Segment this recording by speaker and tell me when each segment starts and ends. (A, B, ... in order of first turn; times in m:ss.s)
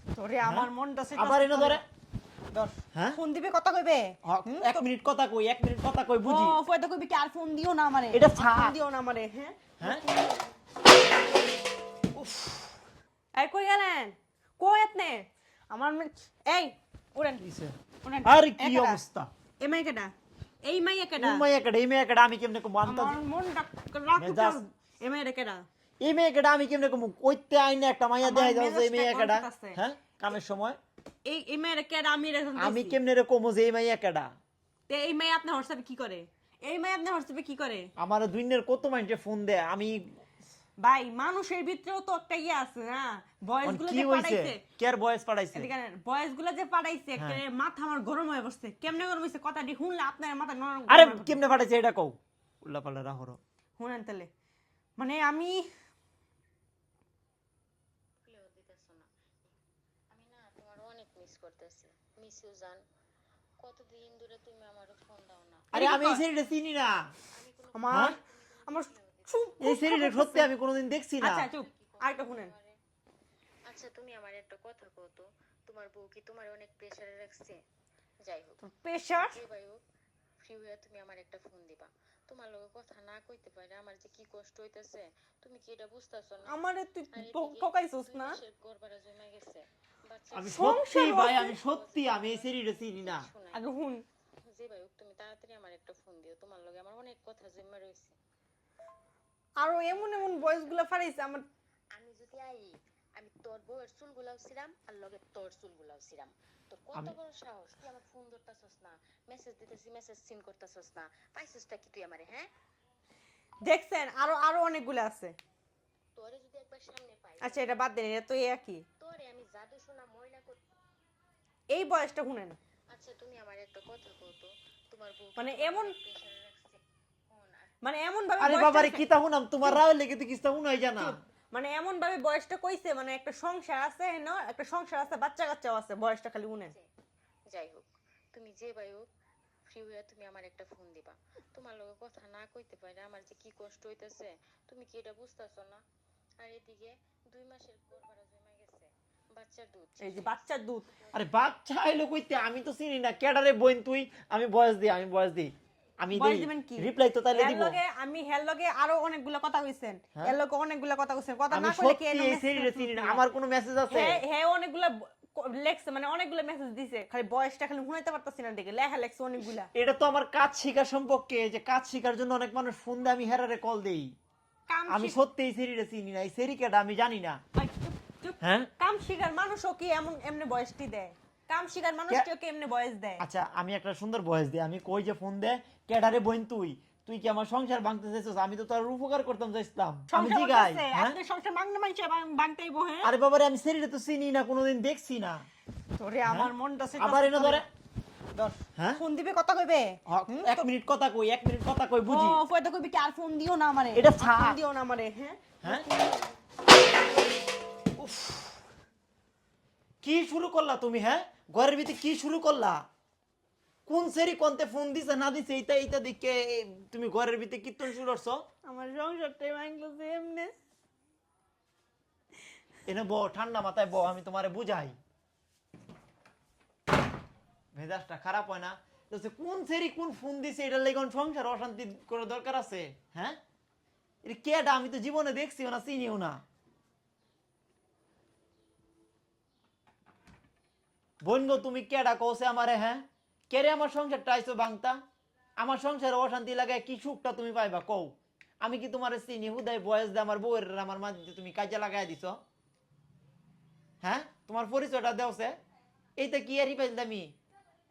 0:00.1-0:01.8 A
0:00.4-0:01.8 B
0:02.5-0:04.8 A
0:04.2-0:06.6 B
0:06.2-0:10.0 A
0:08.1-0:08.8 B
0:09.8-0:10.0 B
0:12.2-0:12.6 B
0:13.3-0:17.4 A
0:17.4-0:19.3 B
0:18.0-0:19.0 A
0:19.6-0:21.5 A
0:21.2-0:23.2 B
0:22.8-0:25.6 A
0:24.2-0:24.6 B
0:26.0-0:30.8 B
0:28.2-0:29.8 A
0:31.2-0:33.0 A
0:32.6-0:34.3 B
0:34.9-0:37.9 A
0:38.0-0:40.2 B
0:40.8-0:44.6 A
0:43.6-0:45.7 B
0:45.5-0:51.4 A
0:50.9-0:53.4 B
0:53.8-0:54.3 A
0:55.0-0:55.7 A
0:58.2-0:59.1 C
1:00.1-1:02.8 C
1:03.6-1:05.7 C
1:05.7-1:06.2 A
1:05.7-1:07.1 B
1:07.2-1:09.7 C
1:07.7-1:10.5 A
1:07.9-1:08.2 B
1:09.6-1:11.5 B
1:11.2-1:12.5 A
1:11.5-1:12.8 C
1:13.7-1:17.6 C
1:18.2-1:19.8 C
1:18.6-1:19.4 A
1:20.4-1:26.6 C
1:26.5-1:28.4 A
1:27.1-1:33.7 C
1:30.3-1:33.3 B
1:30.5-1:31.6 A
1:33.5-1:34.0 A
1:34.5-1:38.2 C
1:39.6-1:41.4 A
1:39.9-1:40.9 C
1:41.9-1:52.5 C
1:53.6-1:55.4 A
1:56.2-1:57.8 C
1:57.4-1:58.9 A
1:59.0-2:00.6 C
2:01.7-2:02.6 A
2:02.9-2:07.7 C
2:05.4-2:06.0 A
2:07.8-2:09.0 A
2:08.4-2:11.2 B
2:11.0-2:16.7 A
2:17.5-2:19.1 C
2:19.7-2:25.8 C
2:26.4-2:31.2 C
2:30.0-2:30.9 A
2:31.1-2:37.8 B
2:36.1-2:43.2 A
2:41.5-2:44.2 B
2:43.9-2:49.7 A
2:49.7-2:54.1 B
2:54.7-2:55.2 A
2:54.9-2:57.4 B
2:57.6-3:03.2 A
2:58.4-2:58.7 B
3:03.2-3:11.2 B
3:10.1-3:13.1 A
3:13.0-3:15.5 B
3:16.0-3:17.6 A
3:16.2-3:17.7 B
3:18.3-3:20.5 A
3:18.8-3:19.0 B
3:20.0-3:22.4 B
3:22.0-3:26.0 A
3:23.9-3:24.6 B
3:28.0-3:28.5 B
3:30.0-3:32.8 B
3:33.9-3:38.4 B
3:38.7-3:40.5 A
3:42.8-3:45.0 B
3:47.7-3:53.4 B
3:54.2-3:56.4 B
4:01.2-4:05.0 B
4:05.6-4:12.4 B
4:14.0-4:15.6 B
4:16.2-4:17.4 B